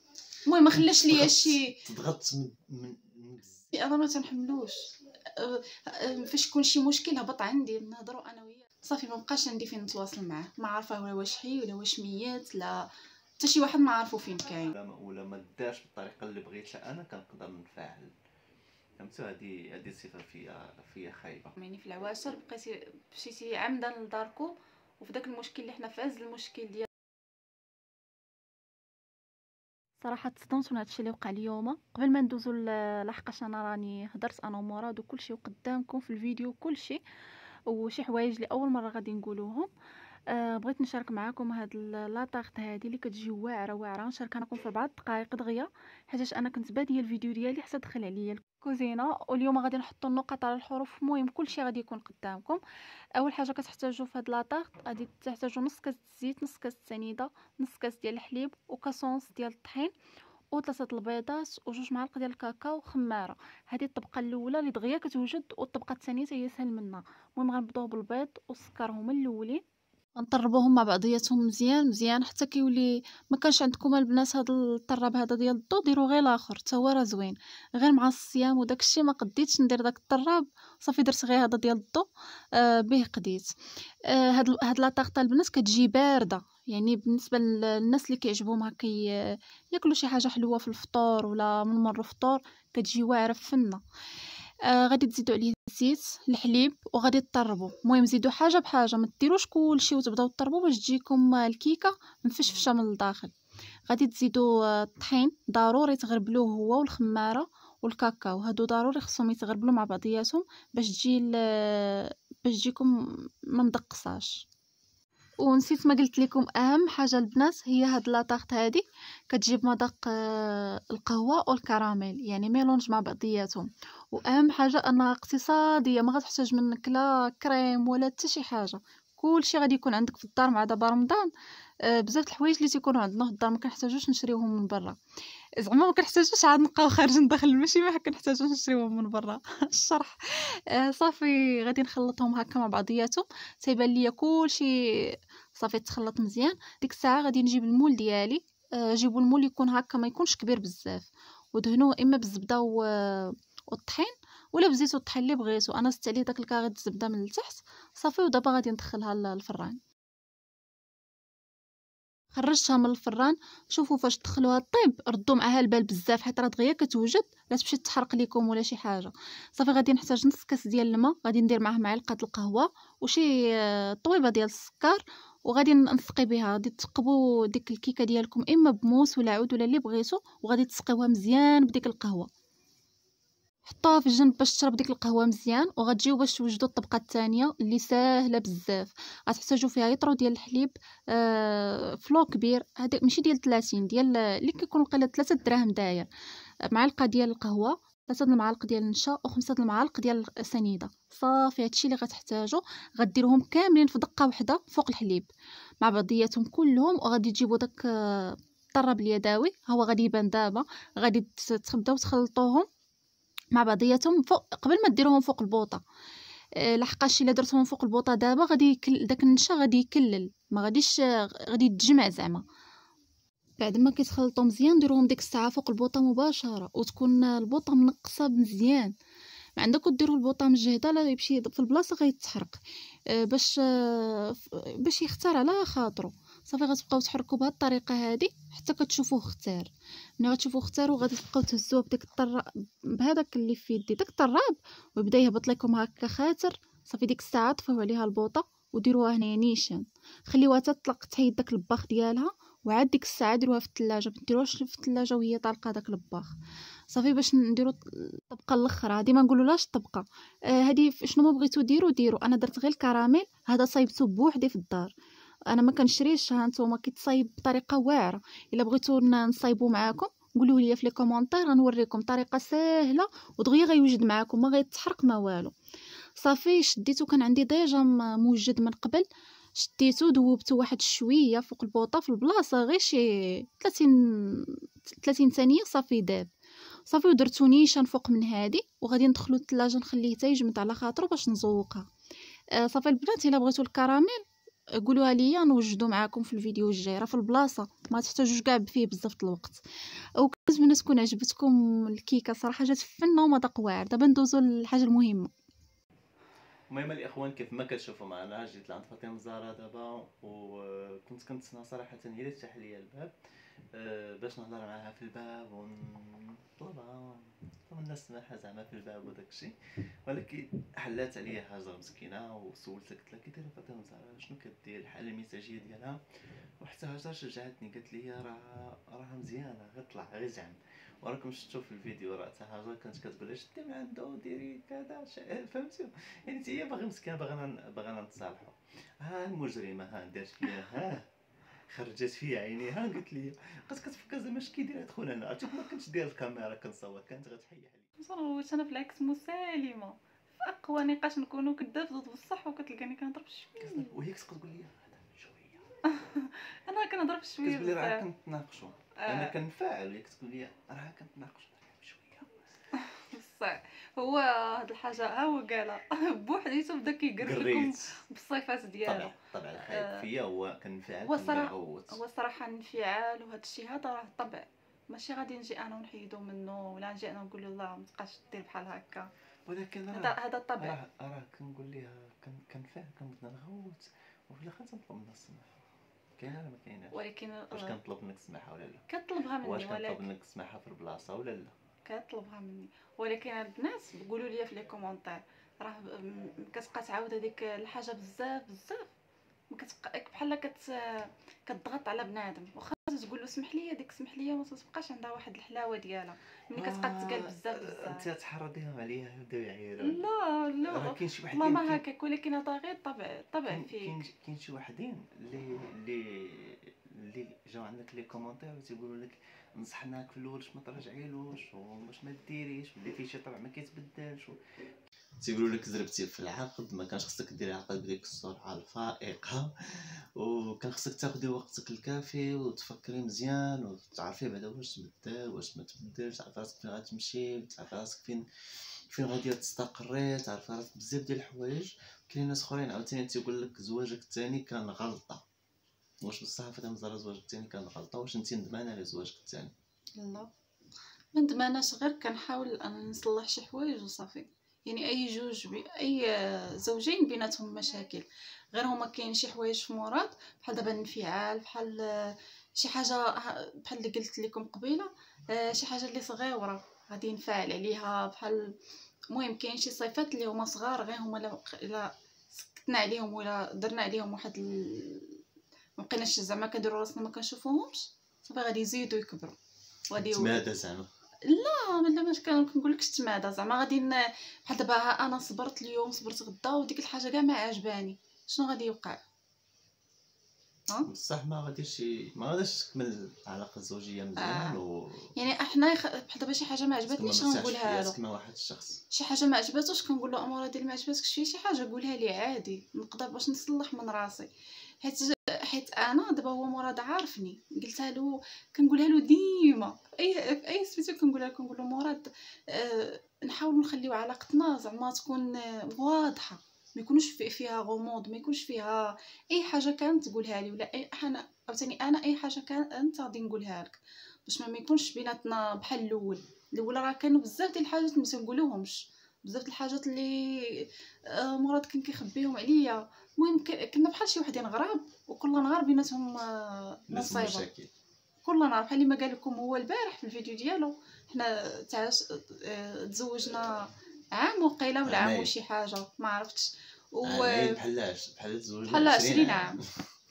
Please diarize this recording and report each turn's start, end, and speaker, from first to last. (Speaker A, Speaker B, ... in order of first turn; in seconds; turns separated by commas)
Speaker A: 0.5-1.8, Speaker B: 0.7-3.7, Speaker A: 3.7-12.9, Speaker A: 13.4-14.8, Speaker B: 14.7-18.2, Speaker B: 19.0-21.6, Speaker A: 21.6-26.9, Speaker A: 30.0-37.0, Speaker A: 37.7-39.7, Speaker A: 40.3-52.6, Speaker A: 53.2-59.9, Speaker A: 60.5-69.6, Speaker A: 70.2-83.5, Speaker A: 84.0-93.8, Speaker A: 94.7-103.3, Speaker A: 103.9-114.5, Speaker A: 115.4-131.3, Speaker A: 131.9-135.0, Speaker A: 135.6-159.8, Speaker A: 162.3-182.3, Speaker A: 183.7-196.1, Speaker A: 196.7-205.3, Speaker A: 205.8-212.7, Speaker A: 213.5-215.8, Speaker A: 216.6-222.4, Speaker A: 223.6-228.9, Speaker A: 229.6-232.6, Speaker A: 233.1-256.4, Speaker A: 256.9-264.9, Speaker A: 265.5-275.5, Speaker A: 276.2-286.3, Speaker A: 286.9-291.8, Speaker A: 292.6-294.2, Speaker A: 294.8-299.6, Speaker A: 300.2-305.3, Speaker B: 306.7-313.1, Speaker B: 313.7-326.0, Speaker B: 326.6-341.1, Speaker B: 341.7-347.9, Speaker A: 348.0-353.9, Speaker B: 353.6-355.6, Speaker A: 355.9-358.0, Speaker B: 357.4-362.4, Speaker A: 359.0-359.3, Speaker A: 362.8-370.1, Speaker B: 367.2-368.0, Speaker B: 368.8-372.0, Speaker A: 371.1-379.1, Speaker B: 379.5-385.6, Speaker A: 379.9-380.8, Speaker B: 386.2-386.9, Speaker A: 386.9-387.8, Speaker B: 387.5-388.9, Speaker A: 388.9-390.1, Speaker B: 389.4-391.6, Speaker A: 391.9-398.9, Speaker A: 399.5-408.1, Speaker B: 406.6-410.0, Speaker A: 409.8-414.0, Speaker B: 410.7-411.8, Speaker B: 413.5-424.4, Speaker B: 425.2-438.2, Speaker B: 438.9-445.2, Speaker B: 446.0-449.5, Speaker A: 450.0-450.3, Speaker A: 451.1-468.5, Speaker A: 469.1-475.2, Speaker A: 475.8-479.4, Speaker A: 479.9-480.4, Speaker B: 480.0-480.9, Speaker A: 481.3-489.0, Speaker B: 490.9-495.1, Speaker A: 494.2-494.6, Speaker A: 495.2-498.0, Speaker B: 496.9-498.8, Speaker A: 498.9-504.3, Speaker A: 504.8-537.5, Speaker B: 536.9-537.7, Speaker A: 538.2-547.6, Speaker B: 544.9-545.3, Speaker B: 547.0-549.7, Speaker A: 548.7-549.6